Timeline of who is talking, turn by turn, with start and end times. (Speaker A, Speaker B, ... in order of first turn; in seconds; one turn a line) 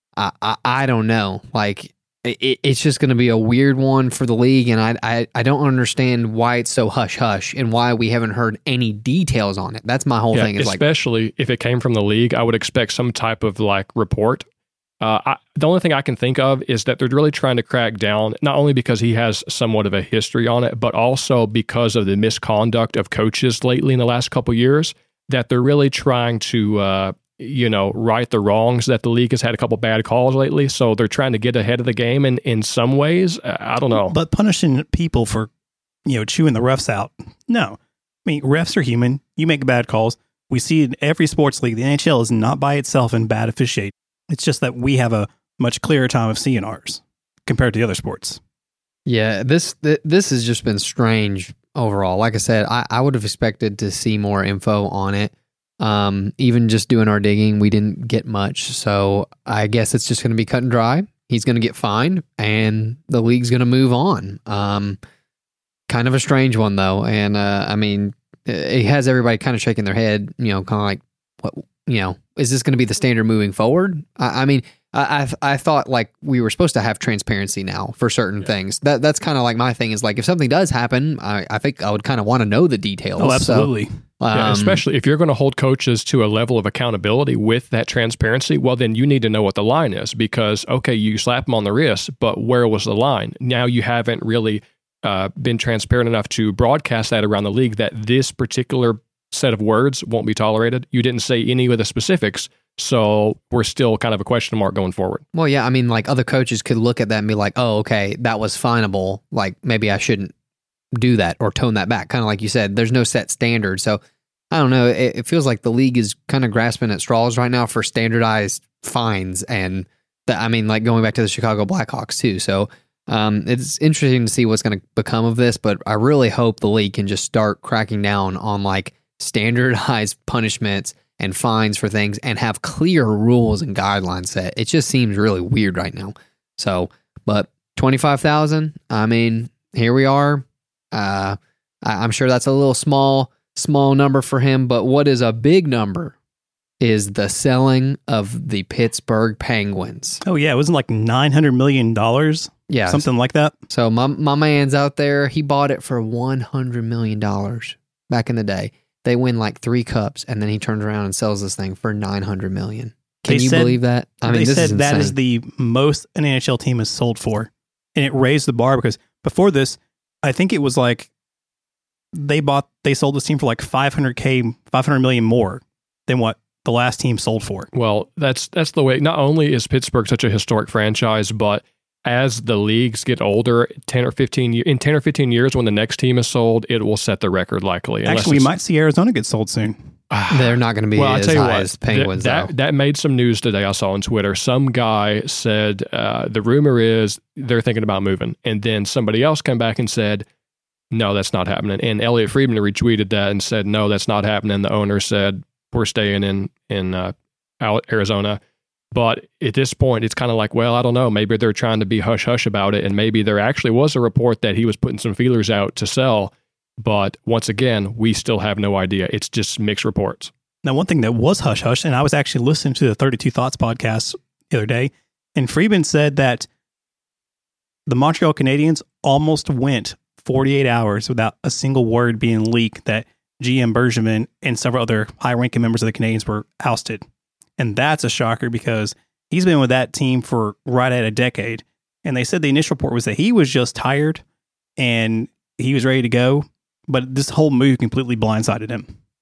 Speaker A: 0.2-10.8
Speaker B: 10.3-14.4
Speaker B: 15.0-34.2
Speaker C: 34.1-35.5
Speaker C: 36.1-48.4
Speaker A: 49.1-65.0
Speaker A: 65.9-84.8
Speaker C: 83.2-84.0
Speaker B: 84.3-105.2
Speaker A: 105.3-110.3
Speaker A: 110.9-114.0
Speaker A: 114.5-146.2
Speaker A: 146.8-150.2
Speaker C: 150.2-153.5
Speaker A: 152.7-153.1
Speaker A: 153.7-165.2
Speaker C: 163.3-171.1
Speaker C: 172.1-177.7
Speaker B: 177.7-188.5
Speaker C: 188.1-189.8
Speaker B: 190.1-200.3
Speaker A: 190.3-192.5
Speaker B: 200.9-208.4
Speaker B: 208.9-220.3
Speaker C: 220.6-226.5
Speaker C: 227.9-237.0
Speaker C: 237.6-244.2
Speaker C: 244.8-248.9